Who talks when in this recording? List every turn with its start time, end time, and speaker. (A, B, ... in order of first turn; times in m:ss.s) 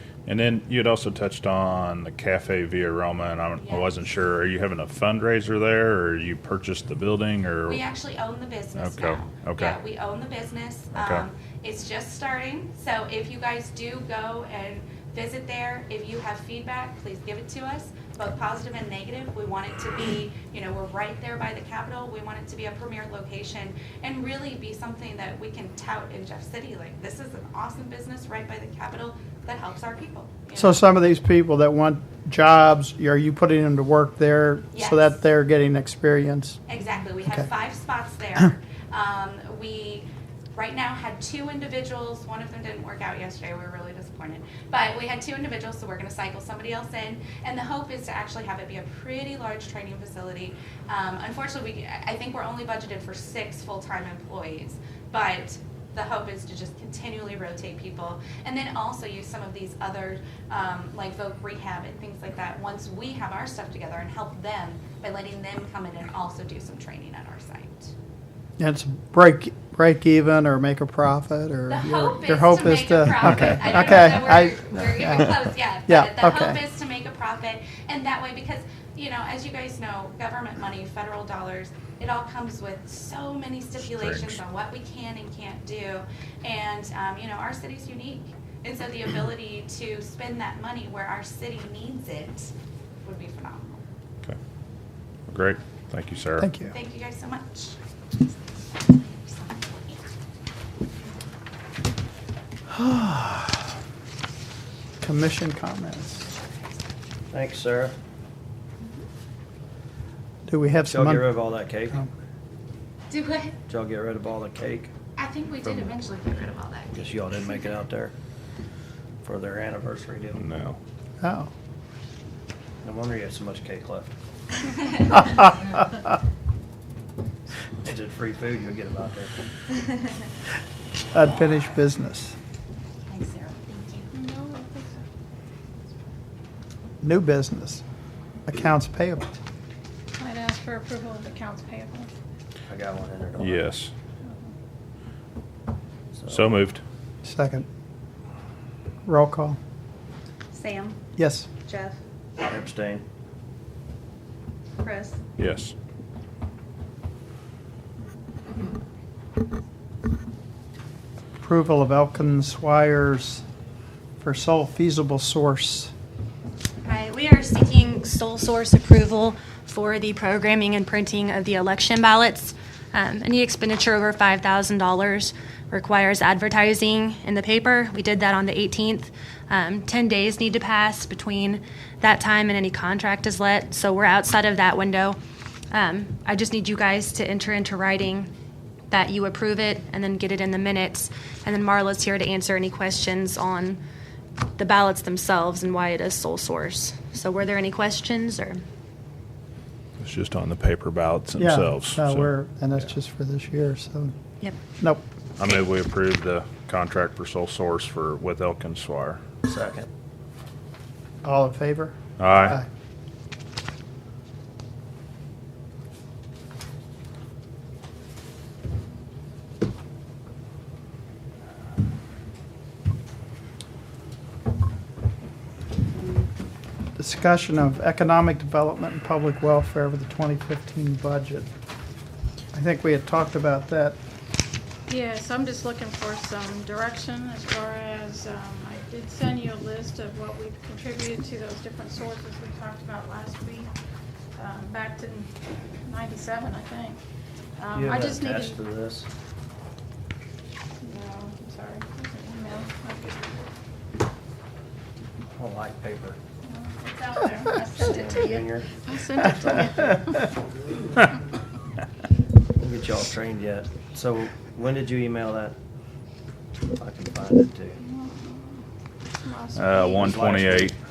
0:00.3-0:07.8 A
0:03.6-0:03.9 B
0:07.6-0:30.8 B
0:08.8-0:09.8 A
0:11.0-0:11.2 A
0:30.6-0:36.6 C
0:34.7-0:35.2 B
0:36.7-1:07.9 B
1:08.6-1:16.6 C
1:11.7-1:32.5 B
1:23.8-1:24.4 A
1:33.0-1:33.8 B
1:35.3-1:36.5 A
1:36.4-1:36.7 C
1:36.7-1:40.0 B
1:42.7-1:43.6 C
1:45.0-1:46.3 C
1:47.3-1:48.0 D
1:50.5-1:52.1 C
1:50.9-1:52.0 D
1:53.1-1:53.6 B
1:53.7-1:54.9 D
1:55.2-1:57.6 B
1:56.9-1:58.1 D
1:59.2-2:00.4 D
2:00.3-2:00.8 A
2:01.2-2:01.5 C
2:02.8-2:04.1 D
2:07.8-2:09.3 D
2:11.1-2:12.4 C
2:13.1-2:14.1 B
2:14.1-2:15.0 E
2:17.0-2:17.8 C
2:18.5-2:19.4 C
2:20.2-2:22.1 E
2:22.7-2:23.7 D
2:23.4-2:23.9 A
2:26.1-2:26.6 D
2:26.3-2:26.8 A
2:27.2-2:27.7 C
2:29.1-2:29.6 C
2:30.5-2:31.0 B
2:31.2-2:31.5 C
2:31.7-2:32.0 B
2:32.4-2:33.0 D
2:34.8-2:35.2 B
2:35.4-2:35.7 A
2:41.4-2:43.4 C
2:44.2-2:45.9 C
2:46.8-3:05.2 F
3:05.7-3:08.3 F
3:08.9-3:13.8 F
3:14.6-3:18.6 F
3:20.0-3:22.3 A
3:21.4-3:24.1 C
3:24.8-3:25.0 C
3:25.4-3:29.2 A
3:29.4-3:29.9 D
3:31.2-3:32.7 C
3:32.2-3:32.6 A
3:47.0-3:51.5 C
3:52.5-3:54.0 C
3:54.9-4:03.7 E
4:04.4-4:07.0 E
4:07.6-4:08.6 E
4:07.7-4:09.1 D
4:10.8-4:13.3 E
4:15.4-4:16.2 D
4:16.4-4:20.2 E
4:17.7-4:18.8 D
4:19.4-4:19.8 D
4:22.6-4:25.6 D
4:26.7-4:27.8 D
4:27.8-4:28.6 E
4:29.2-4:30.2 E
4:29.6-4:30.8 A
4:30.0-4:30.7 D